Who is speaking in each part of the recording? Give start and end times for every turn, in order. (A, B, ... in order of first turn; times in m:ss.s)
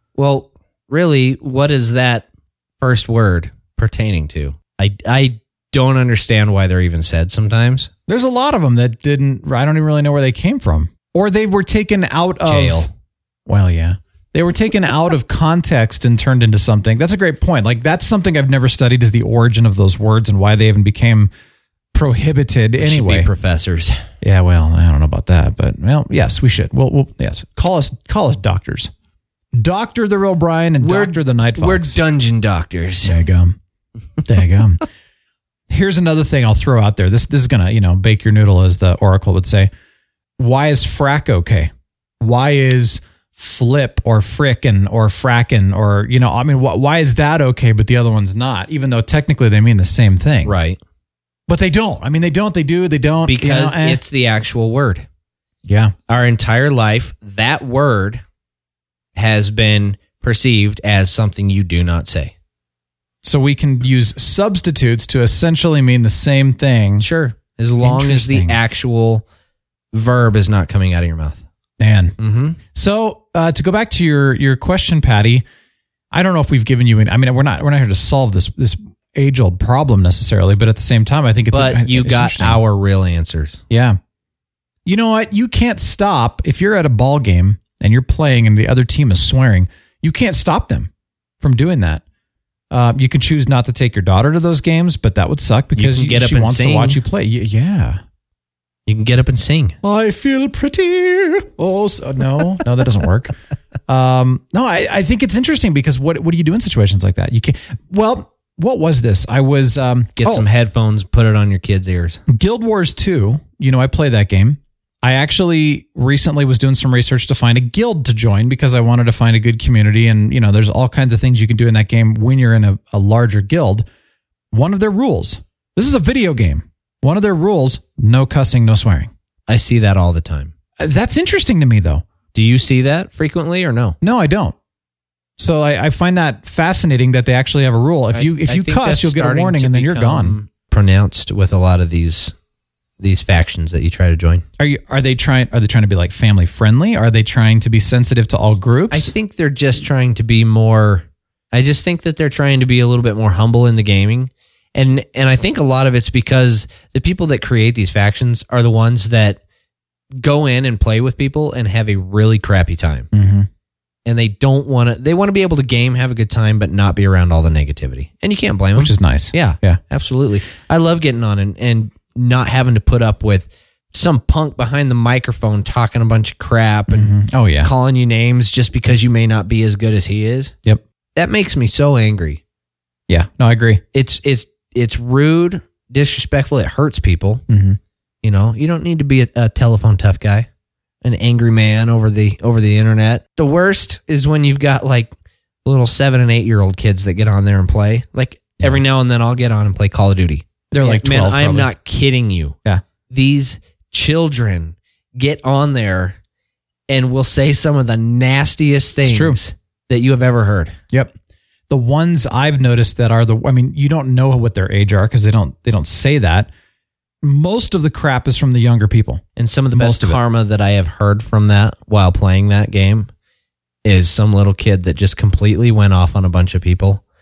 0:00.2-0:02.2 A
0:02.8-0:07.9 A
0:08.1-0:12.9 B
0:12.4-0:12.9 A
0:13.4-0:21.3 B
0:21.9-0:23.3 B
0:22.8-0:24.0 A
0:24.2-0:28.9 B
0:29.5-0:32.0 B
0:30.8-0:33.2 A
0:33.0-0:33.6 B
0:34.2-0:34.8 B
0:35.7-0:39.7 B
0:40.4-0:50.6 B
0:50.4-0:50.8 A
0:51.5-0:54.0 B
0:53.2-0:55.0 A
0:55.6-0:55.9 B
0:56.1-0:58.2 A
0:59.1-1:02.3 A
1:03.2-1:07.1 B
1:07.0-1:09.2 A
1:07.8-1:08.6 B
1:09.9-1:11.4 A
1:11.8-1:12.2 B
1:12.2-1:12.6 A
1:12.7-1:15.4 B
1:16.1-1:22.6 B
1:21.5-1:23.6 A
1:23.7-1:24.0 B
1:24.8-1:30.9 B
1:31.4-1:32.0 B
1:32.7-1:38.0 B
1:35.8-1:37.0 A
1:38.9-1:39.8 A
1:39.8-1:43.3 B
1:43.9-1:50.4 B
1:50.2-1:52.2 A
1:52.3-2:03.8 B
2:04.5-2:09.1 B
2:09.5-2:10.5 A
2:10.8-2:12.0 B
2:12.3-2:14.0 A
2:14.0-2:14.5 B
2:15.4-2:20.4 B
2:18.1-2:22.3 A
2:23.0-2:24.4 A
2:24.6-2:29.1 B
2:28.9-2:39.4 A
2:40.2-2:43.1 A
2:43.1-2:43.5 B
2:44.0-3:00.5 A
2:48.8-2:49.8 B
2:56.9-2:57.7 B
3:01.1-3:02.4 A
3:03.1-3:03.8 B
3:03.9-3:07.4 A
3:07.5-3:07.8 B
3:08.2-3:10.5 A
3:11.0-3:15.1 A
3:15.6-3:22.6 A
3:20.7-3:21.7 B
3:23.1-3:26.2 A
3:26.9-3:30.8 A
3:29.0-3:29.4 B
3:31.7-3:36.5 B
3:37.2-3:40.2 B
3:39.4-3:43.1 A
3:43.8-3:47.0 A